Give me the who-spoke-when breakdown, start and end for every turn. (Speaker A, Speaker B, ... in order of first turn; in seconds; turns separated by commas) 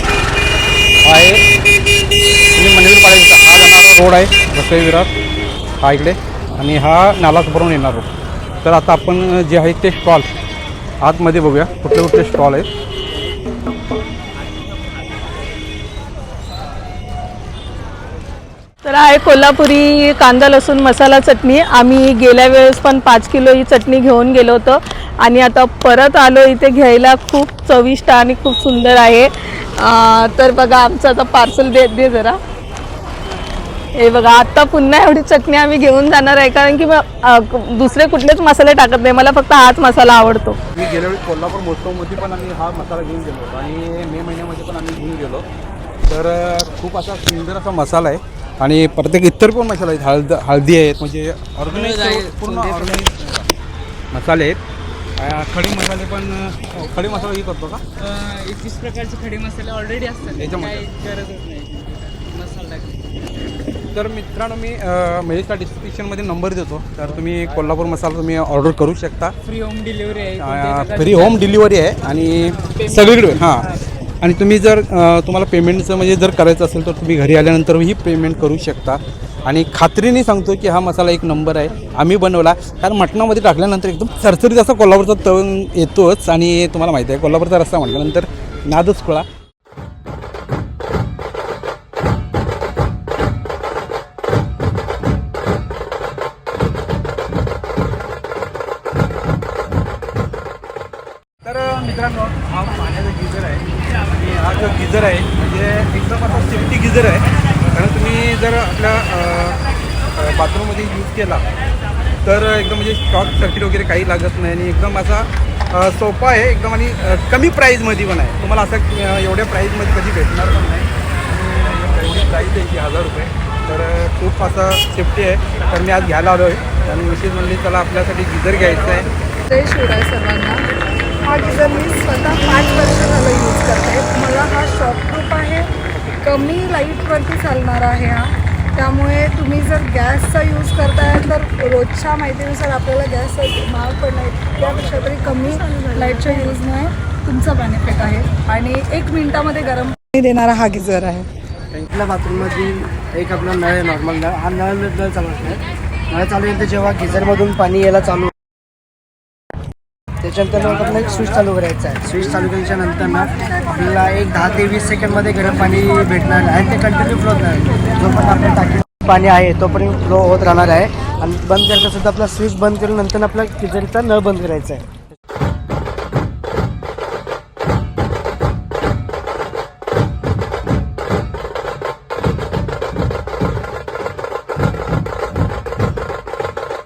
Speaker A: 1.0-1.4, Speaker A: 2.5-5.1, Speaker A: 5.8-8.1, Speaker A: 8.6-10.3, Speaker A: 11.0-12.7, Speaker B: 18.8-32.4, Speaker B: 34.0-40.6, Speaker A: 40.7-45.5, Speaker A: 46.1-53.5, Speaker C: 51.7-53.0, Speaker A: 54.1-54.6, Speaker A: 55.2-57.8, Speaker C: 58.0-63.0, Speaker A: 60.2-60.9, Speaker A: 63.9-69.3, Speaker C: 69.5-71.5, Speaker A: 70.4-89.3, Speaker A: 101.4-109.6, Speaker A: 110.2-111.4, Speaker A: 112.2-129.1, Speaker D: 129.5-130.7, Speaker D: 131.2-135.7, Speaker D: 136.2-151.3, Speaker B: 145.7-146.4, Speaker E: 151.7-158.3, Speaker E: 160.2-174.9, Speaker D: 163.4-163.7, Speaker D: 167.0-168.0